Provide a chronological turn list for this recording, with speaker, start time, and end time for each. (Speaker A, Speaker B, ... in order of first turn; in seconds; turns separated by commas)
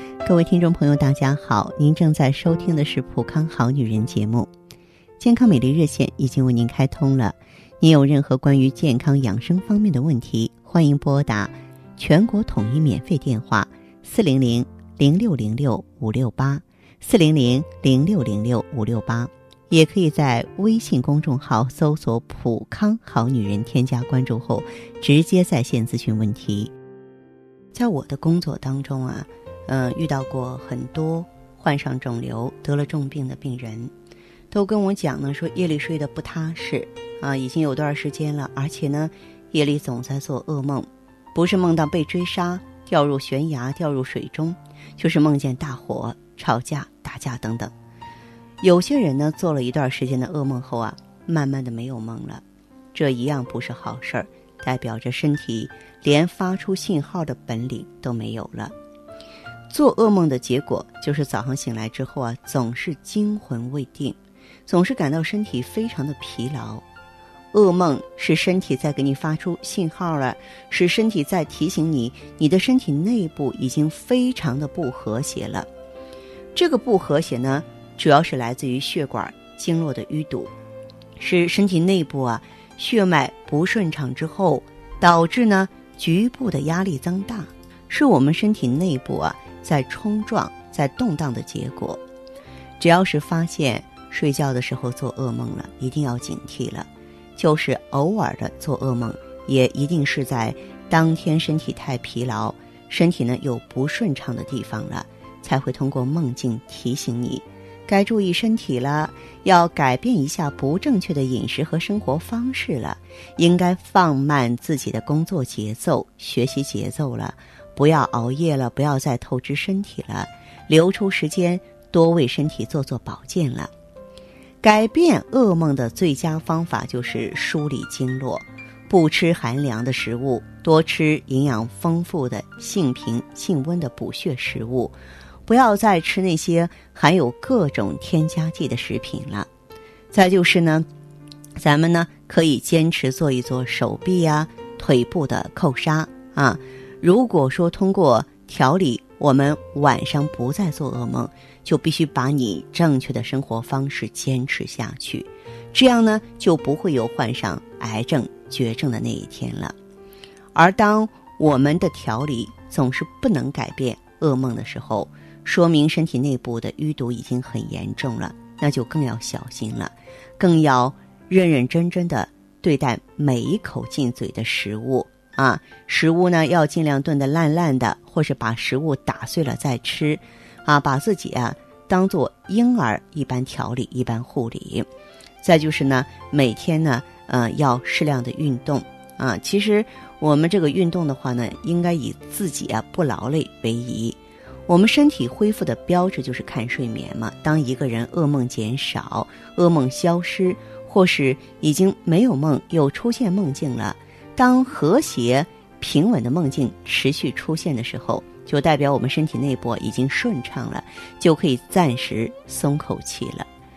Speaker A: 0.2-4.5, Speaker A: 5.2-26.7, Speaker A: 27.7-33.9, Speaker A: 34.5-47.7, Speaker A: 48.6-52.4, Speaker A: 52.9-58.7, Speaker A: 59.7-64.2, Speaker A: 64.7-66.8, Speaker A: 67.5-75.7, Speaker A: 76.5-80.5, Speaker A: 81.2-92.0, Speaker A: 92.8-123.7, Speaker A: 124.6-134.9, Speaker A: 135.5-139.5, Speaker A: 140.1-140.9, Speaker A: 141.6-159.8, Speaker A: 160.5-184.9, Speaker A: 185.4-213.5